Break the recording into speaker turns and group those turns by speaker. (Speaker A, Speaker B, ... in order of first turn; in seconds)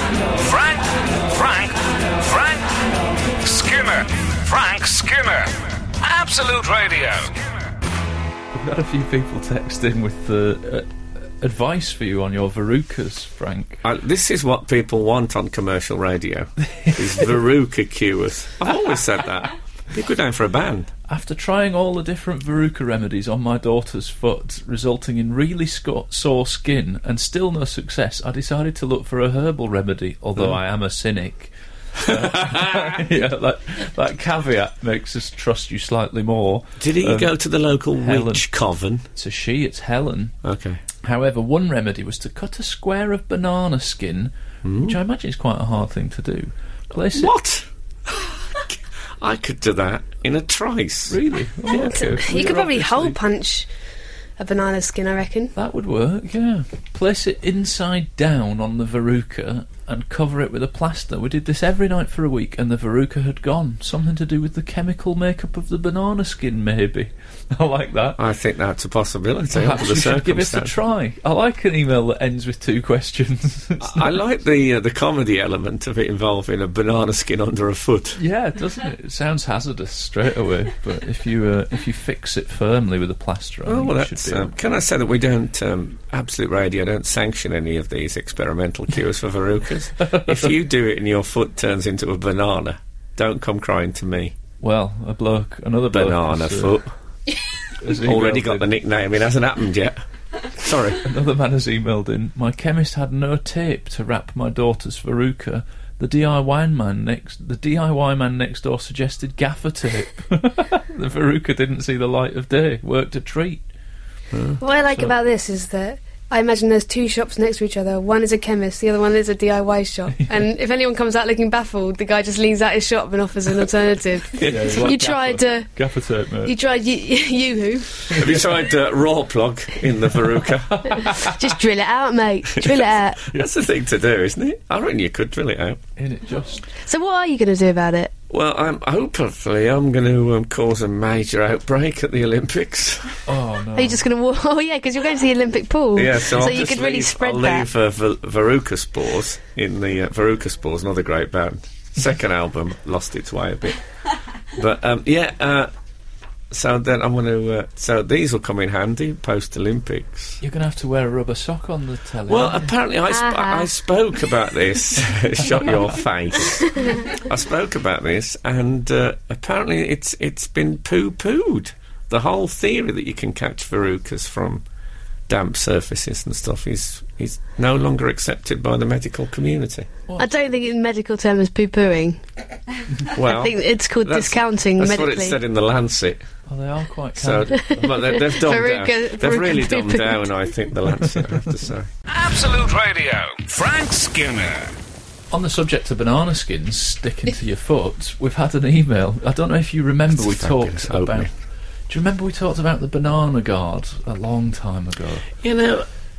Speaker A: 0.4-7.7, 192.1-194.8
Speaker B: 8.5-10.9, 11.4-13.8, 21.1-37.3, 38.0-38.5, 39.1-40.4, 41.0-44.3, 44.9-47.3, 51.1-53.2, 55.6-68.2, 69.5-74.2, 78.2-84.5, 90.0-90.5, 94.6-96.8, 97.8-98.7, 101.0-113.6, 124.4-126.5, 128.1-128.4, 130.3-131.5, 136.0-136.7, 143.3-144.0, 160.4-162.7, 165.4-166.0, 186.5-187.9, 195.3-201.3, 201.9-205.3
Speaker C: 13.8-20.9, 32.0-33.1, 36.8-39.0, 40.4-40.8, 44.6-45.0, 47.1-51.2, 68.2-70.7, 73.8-78.2, 83.7-94.4, 95.9-96.9, 97.9-100.0, 100.5-101.1, 114.3-114.6, 124.3-124.9, 128.1-131.0, 133.3-135.8, 138.3-143.2, 145.9-153.8, 154.5-155.7, 156.5-160.4, 162.3-174.6, 175.3-179.9, 183.1-186.2, 187.2-191.9, 200.1-201.3, 205.4-205.9
Speaker D: 51.7-53.7, 54.4-55.5, 114.6-125.7, 126.5-128.1, 131.0-133.2, 136.8-138.1, 143.8-147.7, 163.1-163.7, 166.7-167.0, 180.2-182.2, 183.1-185.4, 187.6-190.3